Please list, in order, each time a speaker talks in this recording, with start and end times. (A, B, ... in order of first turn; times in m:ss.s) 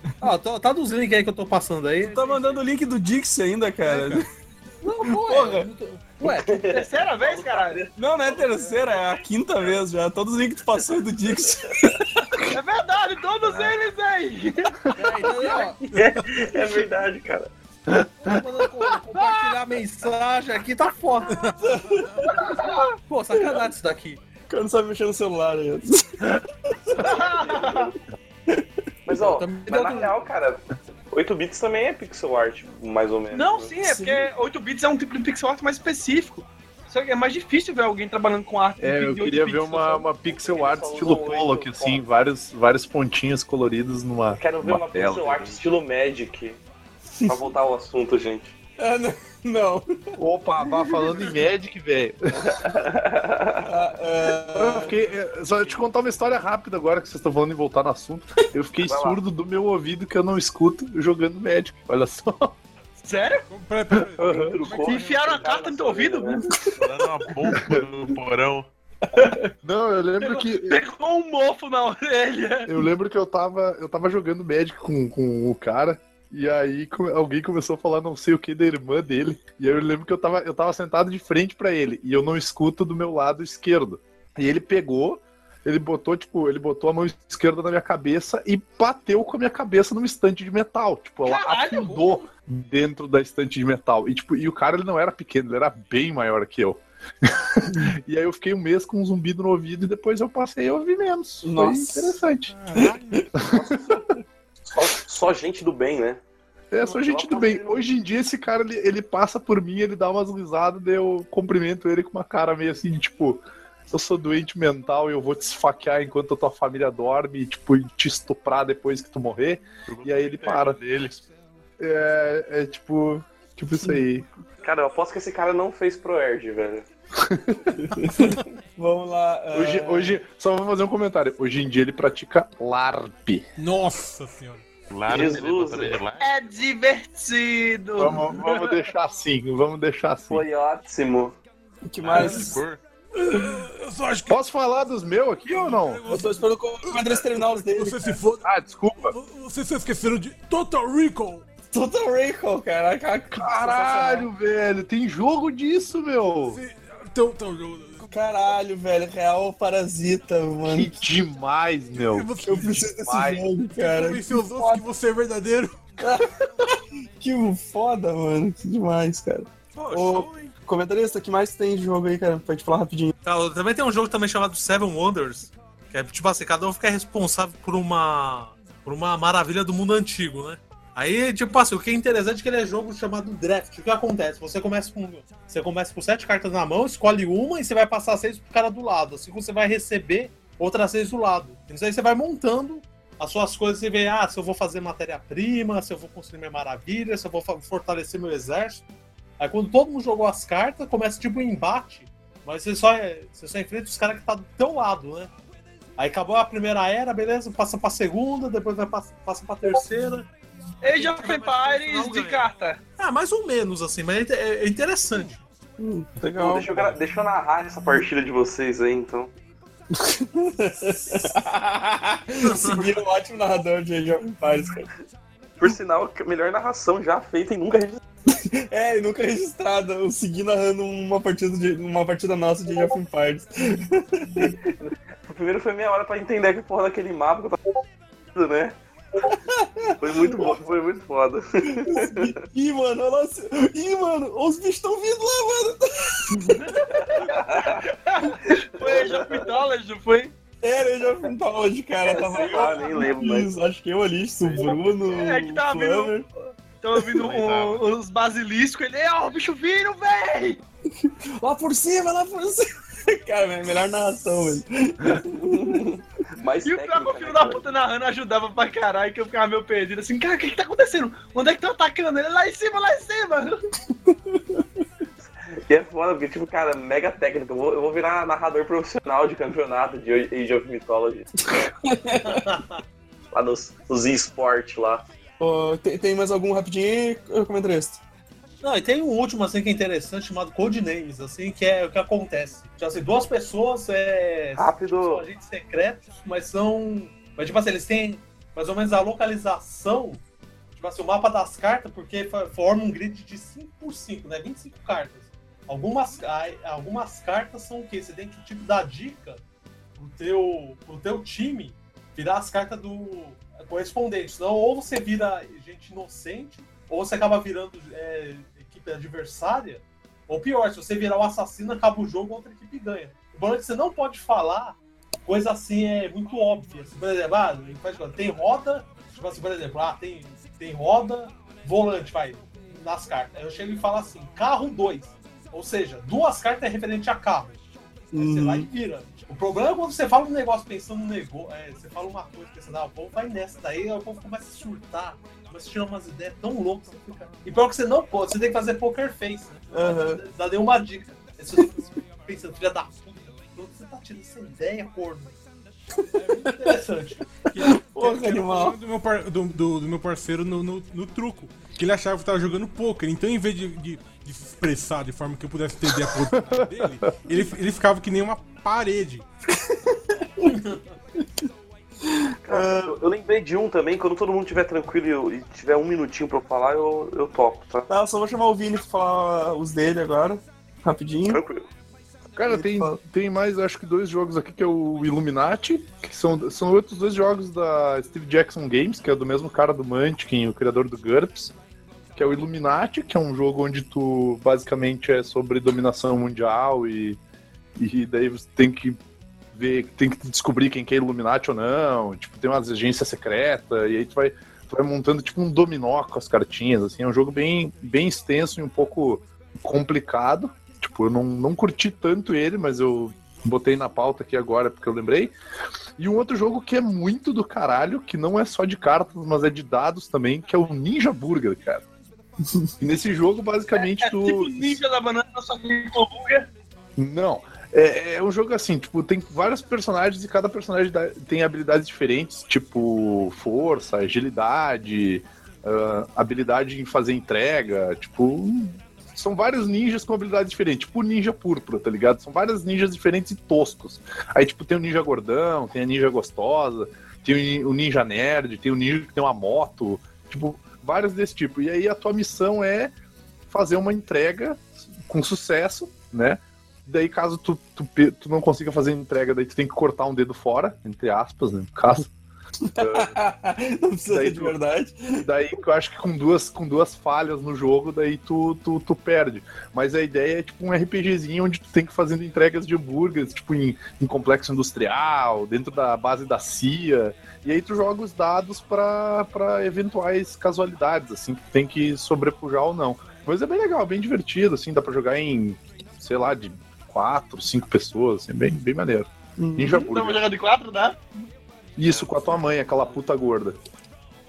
0:00.2-0:02.6 A
0:02.0-0:04.3 B
0:03.8-0:04.3 C
0:04.8-0:06.7 A
0:05.0-0:05.7 B
0:06.2-0:08.0 D
0:06.6-0:07.8 E
0:08.0-0:12.0 B
0:08.3-0:08.9 A
0:12.5-0:14.8 E
0:14.9-0:16.1 A
0:15.5-0:17.5 D
0:17.9-0:18.4 F
0:18.2-0:21.4 A
0:21.3-0:22.3 C
0:21.6-0:22.5 B
0:22.4-0:24.2 A
0:24.5-0:26.9 B
0:27.0-0:27.9 D
0:27.0-0:27.8 A
0:27.0-0:27.7 E
0:29.1-0:33.8 D
0:29.2-0:30.2 A
0:33.3-0:40.1 E
0:38.8-0:45.6 F
0:40.3-0:42.0 D
0:44.3-0:46.6 D
0:47.2-0:48.5 D
0:48.8-0:49.9 B
0:50.2-0:52.6 F
0:52.4-0:53.7 D
0:53.6-0:54.9 B
0:54.5-1:02.6 F
0:58.8-0:59.2 D
1:03.0-1:03.5 E
1:03.5-1:05.6 C
1:03.9-1:04.6 F
1:04.2-1:06.5 D
1:04.8-1:06.6 E
1:06.8-1:08.7 G
1:07.5-1:07.8 F
1:09.2-1:09.5 E
1:09.6-1:10.8 F
1:10.2-1:12.8 E
1:12.7-1:42.5 F
1:31.2-1:32.2 E
1:41.4-1:42.1 B
1:42.5-1:43.5 C
1:43.4-1:43.7 F
1:43.6-1:44.0 D
1:44.7-1:46.2 D
1:46.7-2:00.8 F
1:46.8-1:47.8 D
1:59.9-2:01.2 G
2:01.8-2:04.3 F
2:04.6-2:06.9 D
2:07.2-2:07.8 F
2:07.8-2:10.2 B
2:09.5-2:13.5 F
2:13.6-2:14.6 C
2:14.9-2:16.4 G
2:15.1-2:16.0 D
2:16.2-2:18.7 E
2:18.0-2:20.5 F
2:20.3-2:21.4 D
2:21.8-2:22.6 B
2:22.0-2:22.8 G
2:22.1-2:22.6 C
2:23.2-2:24.4 C
2:24.3-2:26.0 F
2:25.4-2:28.5 C
2:26.1-2:28.1 B
2:28.4-2:29.1 F
2:29.1-2:31.5 C
2:31.7-2:34.3 B
2:33.3-2:36.6 F
2:36.5-2:38.1 C
2:38.0-2:40.9 B
2:40.7-2:42.3 F
2:42.0-2:43.0 C
2:42.4-2:44.8 B
2:43.0-2:43.5 F
2:43.7-2:46.0 C
2:46.0-2:53.1 B
2:49.8-2:50.5 E
2:53.2-3:18.9 A
3:19.4-3:25.3 A
3:26.0-3:30.3 A
3:30.8-3:32.8 E
3:30.8-3:35.4 A
3:35.1-3:35.4 C
3:35.8-3:36.7 B
3:36.4-3:39.3 D
3:39.9-3:44.9 B
3:42.4-3:43.0 A
3:45.6-3:48.0 D
3:48.5-3:54.6 B
3:54.8-3:57.6 D
3:58.3-3:58.8 D
3:59.3-4:00.5 B
4:00.0-4:02.3 D
4:01.8-4:06.3 B
4:07.0-4:07.9 D
4:08.0-4:10.4 E
4:08.5-4:09.5 D
4:10.6-4:16.3 B
4:12.0-4:13.5 D
4:14.4-4:14.8 G
4:15.1-4:16.2 E
4:16.8-4:20.6 E
4:17.2-4:17.9 G
4:21.0-4:25.9 B
4:25.6-4:27.7 D
4:26.6-4:33.6 E
4:34.1-4:34.6 B
4:35.7-4:41.3 D
4:41.5-4:42.4 B
4:42.2-4:42.8 A
4:43.3-4:45.0 D
4:45.4-4:48.0 B
4:48.6-5:00.2 A
4:54.6-4:55.2 D
5:00.8-5:09.4 A
5:10.0-5:37.6 A
5:38.1-5:38.7 B
5:38.1-5:55.4 A
5:49.7-5:50.2 B
5:56.0-5:56.7 B
5:56.1-5:57.7 A
5:57.6-5:58.8 B
5:57.8-6:09.3 C
6:06.3-6:07.2 F
6:09.5-6:10.6 B
6:10.4-6:10.8 A
6:12.1-6:13.0 B
6:12.5-6:17.9 D
6:17.9-6:21.4 B
6:21.3-6:21.7 D
6:22.4-6:31.5 F
6:22.5-6:23.0 B
6:32.2-6:37.2 F
6:37.8-6:39.0 F
6:39.5-6:55.3 F
6:56.0-7:01.8 F
7:02.8-7:04.8 F
7:03.9-7:06.5 E
7:07.0-7:32.9 F
7:33.5-7:42.1 F
7:42.7-7:45.3 B
7:42.8-7:43.2 F
7:44.1-7:44.6 F
7:45.2-8:10.2 F
8:09.4-8:09.9 B
8:09.7-8:11.0 E
8:11.8-8:13.6 F
8:11.8-8:12.4 G